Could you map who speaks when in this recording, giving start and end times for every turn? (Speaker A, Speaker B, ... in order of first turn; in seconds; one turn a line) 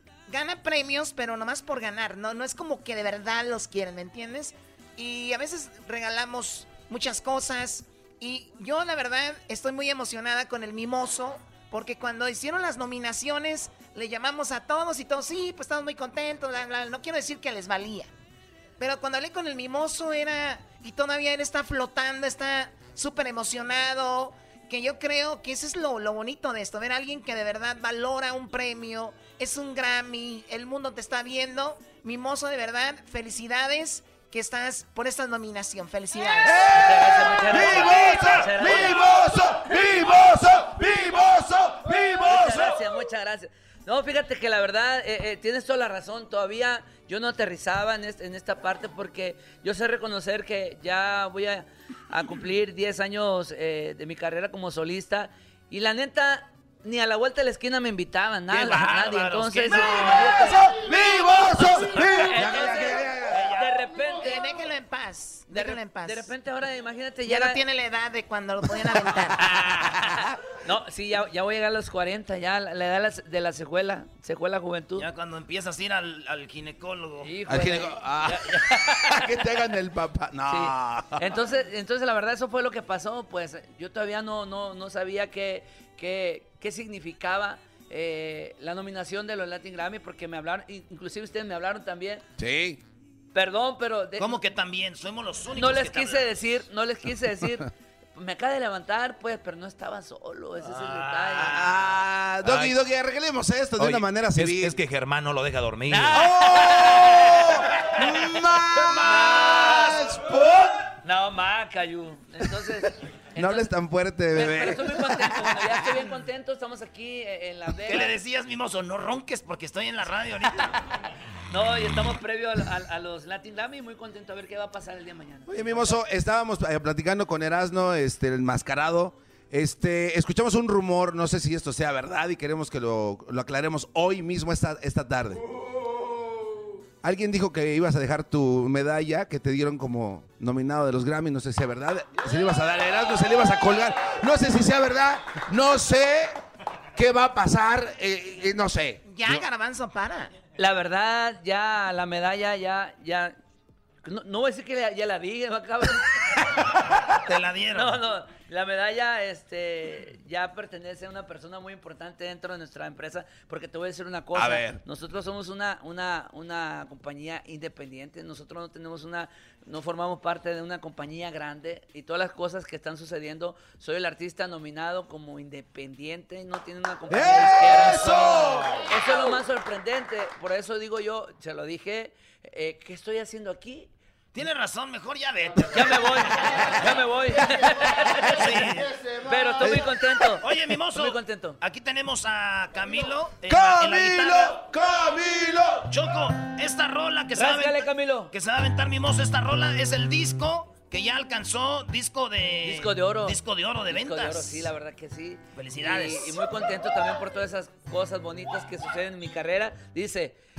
Speaker A: 0.3-18.1
Speaker A: 18.8-36.5
Speaker B: 36.4-42.8
Speaker C: 36.7-39.1
Speaker C: 42.2-60.6
Speaker D: 58.5-60.6
Speaker B: 59.7-63.5
Speaker C: 62.0-63.0
Speaker D: 63.3-63.7
Speaker C: 63.5-64.4
Speaker A: 64.2-66.3
Speaker C: 65.5-67.6
Speaker A: 67.2-69.4
Speaker C: 69.4-75.1
Speaker D: 75.0-77.3
Speaker C: 77.2-79.3
Speaker B: 77.5-81.4
Speaker C: 80.5-92.2
Speaker B: 92.4-92.8
Speaker C: 93.3-94.4
Speaker D: 94.2-96.3
Speaker C: 95.5-101.8
Speaker B: 101.3-104.8
Speaker E: 102.4-102.7
Speaker E: 103.8-106.2
Speaker C: 105.9-107.5
Speaker B: 106.1-110.8
Speaker C: 109.0-110.0
Speaker C: 111.0-113.7
Speaker B: 113.3-115.8
Speaker C: 114.3-118.1
Speaker D: 117.8-120.7
Speaker C: 121.5-125.9
Speaker B: 125.5-135.4
Speaker B: 137.0-146.3
Speaker B: 146.9-149.4
Speaker A: 149.0-150.3
Speaker C: 150.6-153.3
Speaker C: 154.0-156.4
Speaker D: 157.2-158.0
Speaker C: 157.7-183.9
Speaker B: 164.3-164.8
Speaker B: 177.1-179.1
Speaker D: 184.3-186.8
Speaker C: 185.7-188.7
Speaker D: 188.3-188.9
Speaker C: 189.2-191.6
Speaker B: 189.6-189.9
Speaker D: 190.4-194.6
Speaker B: 193.5-195.9
Speaker D: 195.9-204.7
Speaker C: 197.3-198.3
Speaker C: 202.6-210.4
Speaker D: 205.5-206.4